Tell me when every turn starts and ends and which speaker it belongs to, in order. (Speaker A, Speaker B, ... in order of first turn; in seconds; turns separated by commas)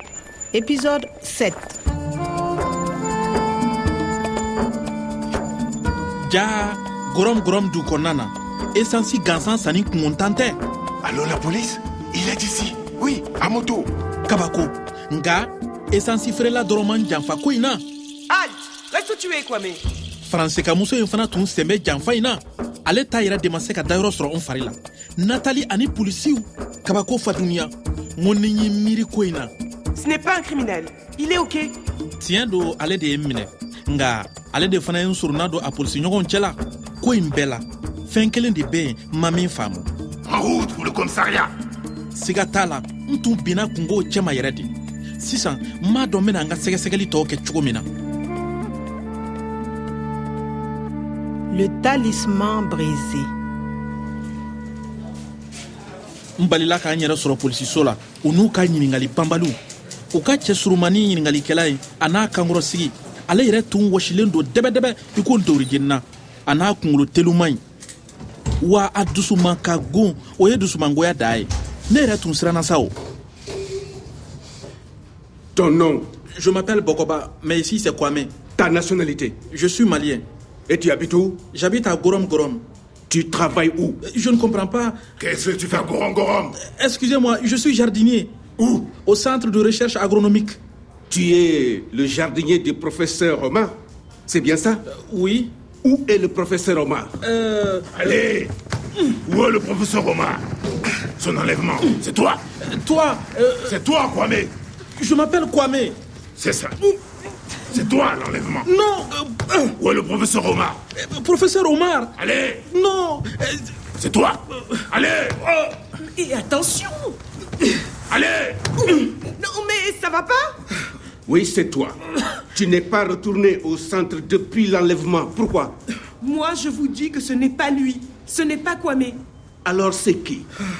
Speaker A: 0.5-1.8, Speaker B: 6.2-10.6, Speaker C: 11.0-13.9, Speaker B: 14.3-17.8, Speaker D: 18.3-19.8, Speaker B: 20.2-29.5, Speaker D: 29.9-31.8, Speaker B: 32.2-39.9, Speaker C: 40.3-41.5, Speaker B: 42.1-47.9, Speaker A: 51.5-53.3, Speaker B: 56.4-59.6, Speaker B: 60.1-67.6, Speaker B: 68.6-72.9, Speaker E: 75.5-76.1, Speaker B: 76.4-78.3, Speaker E: 78.6-79.4, Speaker B: 79.5-80.2, Speaker E: 80.7-81.4, Speaker B: 81.5-82.6, Speaker E: 83.1-84.0, Speaker B: 84.0-85.0, Speaker C: 85.2-86.5, Speaker B: 86.5-88.3, Speaker B: 88.9-90.6, Speaker E: 91.1-93.7, Speaker E: 94.3-94.8, Speaker B: 94.9-95.5, Speaker E: 95.8-97.1, Speaker B: 97.2-98.2, Speaker C: 98.0-98.5, Speaker C: 99.2-100.4, Speaker C: 101.2-102.4, Speaker B: 102.6-103.8, Speaker C: 103.6-104.5, Speaker B: 105.0-106.0, Speaker C: 106.4-106.9, Speaker C: 107.7-108.7, Speaker B: 108.6-109.8, Speaker C: 109.8-110.8, Speaker B: 111.0-112.1, Speaker C: 112.2-112.6, Speaker B: 112.7-113.8, Speaker C: 114.0-115.9, Speaker D: 115.9-117.2, Speaker C: 118.1-118.7, Speaker D: 118.8-120.6, Speaker E: 121.2-125.8, Speaker D: 126.2-129.2, Speaker E: 129.6-130.5